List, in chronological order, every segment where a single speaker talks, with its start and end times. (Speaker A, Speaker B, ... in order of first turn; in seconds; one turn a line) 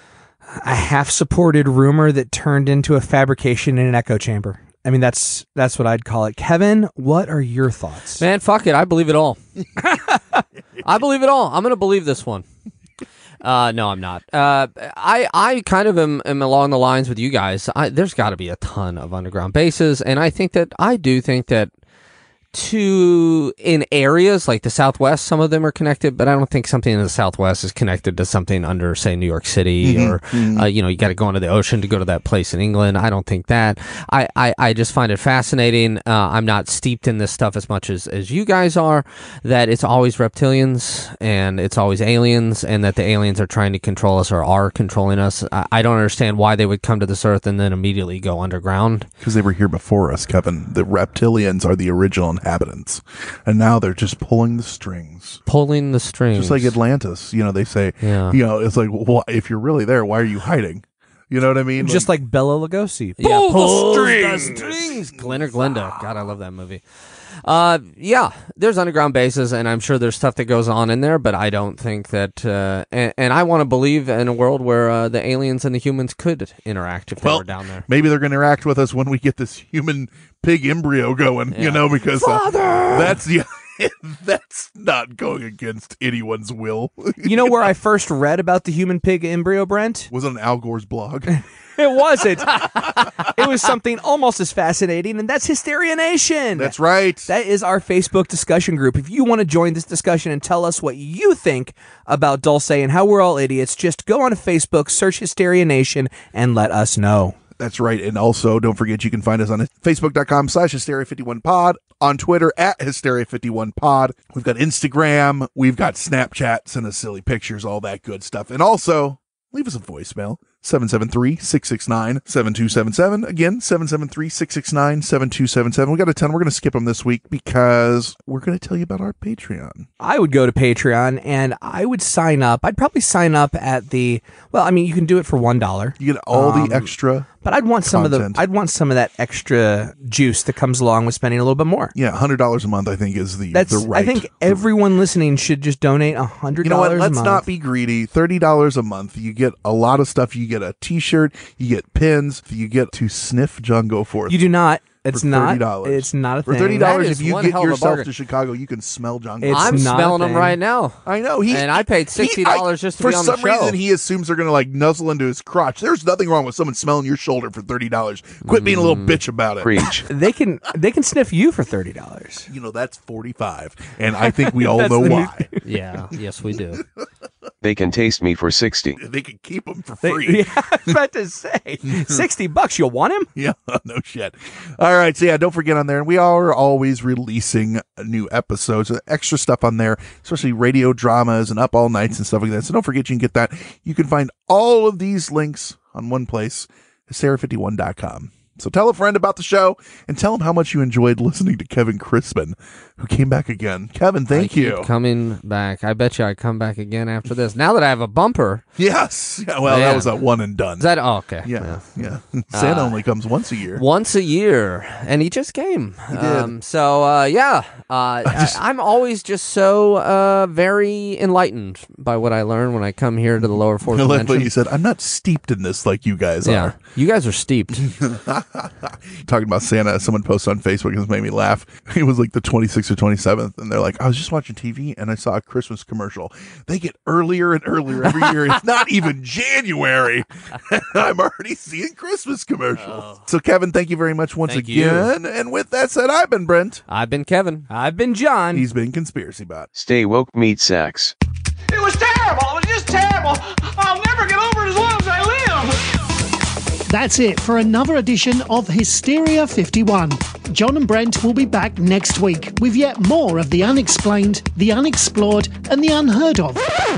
Speaker A: 0.6-8.2
Speaker B: 8.2-9.4
Speaker A: 9.9-10.2
Speaker B: 10.8-12.4
Speaker B: 13.4-21.7
Speaker B: 22.5-49.1
Speaker C: 29.8-30.6
Speaker C: 49.2-55.4
Speaker B: 55.5-56.7
Speaker C: 56.3-62.1
Speaker B: 58.0-58.4
Speaker A: 61.8-64.7
Speaker B: 63.2-66.8
Speaker B: 67.4-77.8
Speaker C: 77.2-87.7
Speaker B: 81.5-83.2
Speaker A: 87.2-90.1
Speaker C: 90.1-91.4
Speaker A: 91.8-96.7
Speaker C: 92.5-93.1
Speaker C: 96.5-97.3
Speaker A: 97.3-107.4
Speaker C: 107.6-129.9
Speaker A: 130.0-141.9
Speaker C: 136.0-137.3
Speaker C: 137.8-138.4
Speaker C: 141.9-144.7
Speaker A: 143.5-147.4
Speaker C: 146.6-154.5
Speaker A: 154.3-157.0
Speaker C: 155.1-159.9
Speaker B: 156.8-158.1
Speaker A: 159.4-160.6
Speaker B: 159.5-163.8
Speaker C: 161.0-170.0
Speaker B: 168.4-169.2
Speaker D: 169.6-170.0
Speaker A: 170.1-172.5
Speaker C: 172.5-175.5
Speaker A: 174.6-175.5
Speaker B: 175.6-176.8
Speaker D: 177.6-179.0
Speaker C: 179.0-180.9
Speaker A: 180.0-183.3
Speaker C: 181.8-182.2
Speaker C: 183.3-204.9
Speaker B: 204.3-208.6
Speaker C: 208.8-210.9
Speaker B: 209.7-210.1
Speaker B: 210.8-211.9
Speaker C: 211.4-213.8
Speaker B: 212.5-213.0
Speaker B: 213.7-224.5
Speaker C: 216.1-216.5
Speaker C: 218.2-218.6
Speaker C: 223.9-226.7
Speaker B: 226.4-227.8
Speaker C: 227.8-246.8
Speaker B: 242.8-243.2
Speaker B: 244.5-245.1
Speaker B: 246.9-247.7
Speaker A: 247.7-248.7
Speaker C: 248.5-249.7
Speaker D: 249.7-251.1
Speaker E: 251.7-255.8
Speaker F: 256.9-266.7